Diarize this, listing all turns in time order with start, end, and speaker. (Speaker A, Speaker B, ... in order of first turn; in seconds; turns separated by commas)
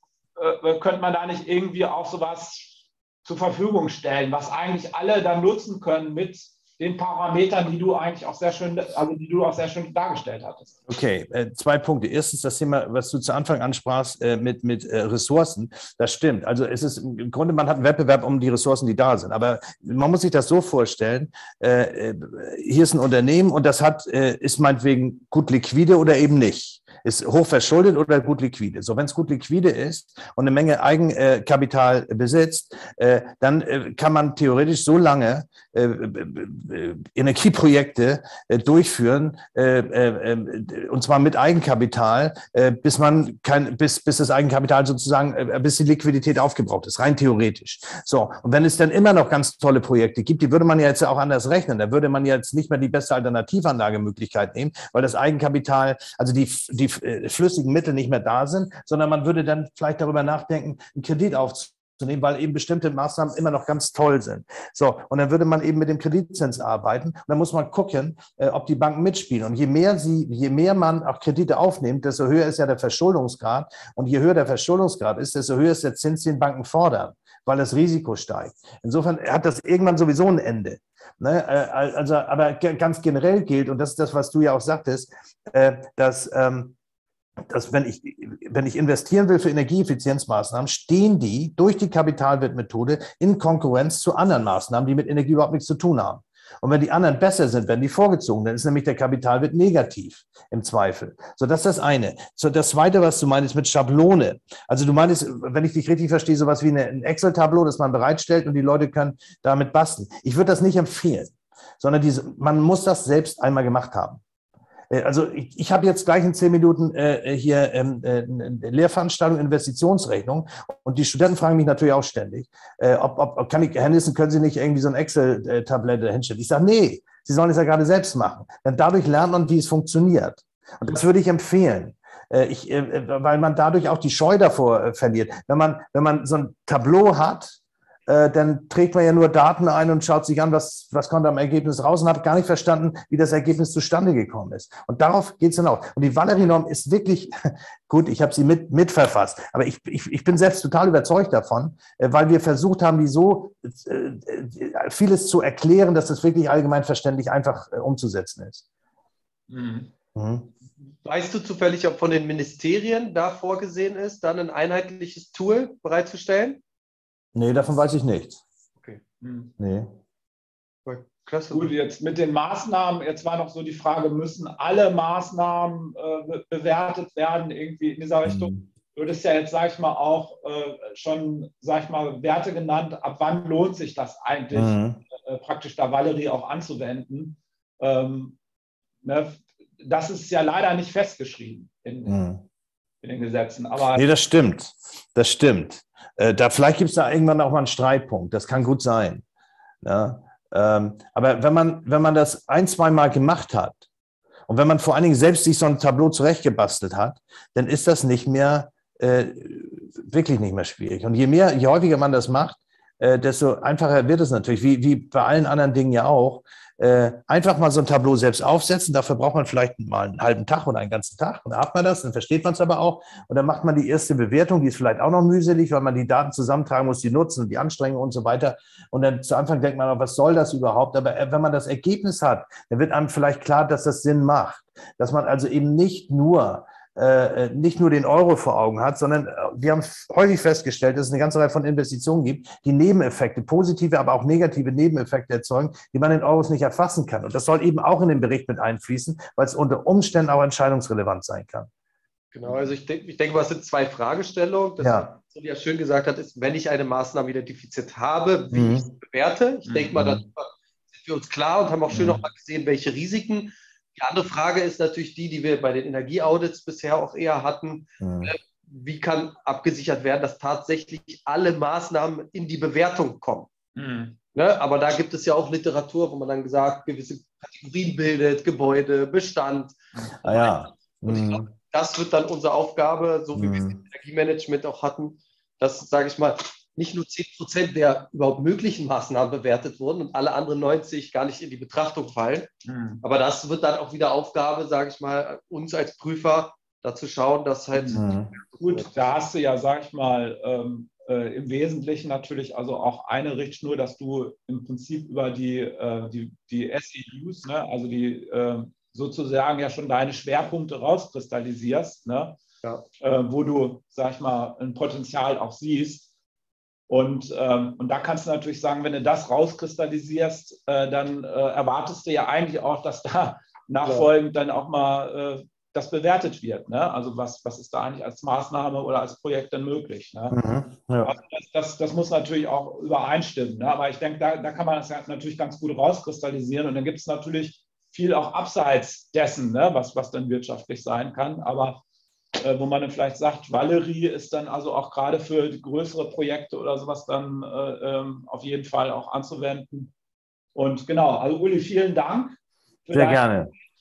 Speaker A: 0.3-10.8, Speaker B: 10.9-86.7, Speaker B: 87.5-114.2, Speaker B: 114.9-158.6, Speaker A: 159.5-159.9, Speaker B: 160.1-160.5, Speaker C: 161.0-166.6, Speaker B: 167.3-168.4, Speaker A: 169.2-169.5, Speaker B: 169.6-169.9, Speaker C: 170.8-171.7, Speaker A: 171.5-188.3, Speaker B: 178.2-178.6, Speaker B: 184.5-185.0, Speaker A: 189.0-192.2, Speaker B: 192.1-192.4, Speaker A: 193.0-194.1, Speaker B: 193.9-199.2, Speaker B: 199.8-203.8, Speaker B: 204.5-251.7, Speaker C: 252.3-273.5, Speaker B: 252.4-252.7, Speaker B: 254.8-255.1, Speaker B: 258.5-258.9, Speaker A: 259.6-259.9, Speaker B: 259.9-260.2, Speaker B: 261.9-262.2, Speaker B: 268.0-268.3, Speaker A: 273.8-274.2, Speaker C: 274.3-280.5, Speaker B: 280.2-281.5, Speaker C: 281.0-292.5, Speaker B: 283.3-283.8, Speaker A: 292.6-293.0, Speaker C: 293.0-298.9, Speaker B: 297.9-298.3, Speaker A: 298.6-312.4, Speaker A: 313.0-316.1, Speaker A: 316.9-330.4, Speaker B: 330.3-331.1, Speaker A: 331.0-341.8, Speaker A: 342.4-349.9, Speaker A: 350.5-353.3, Speaker B: 352.9-353.5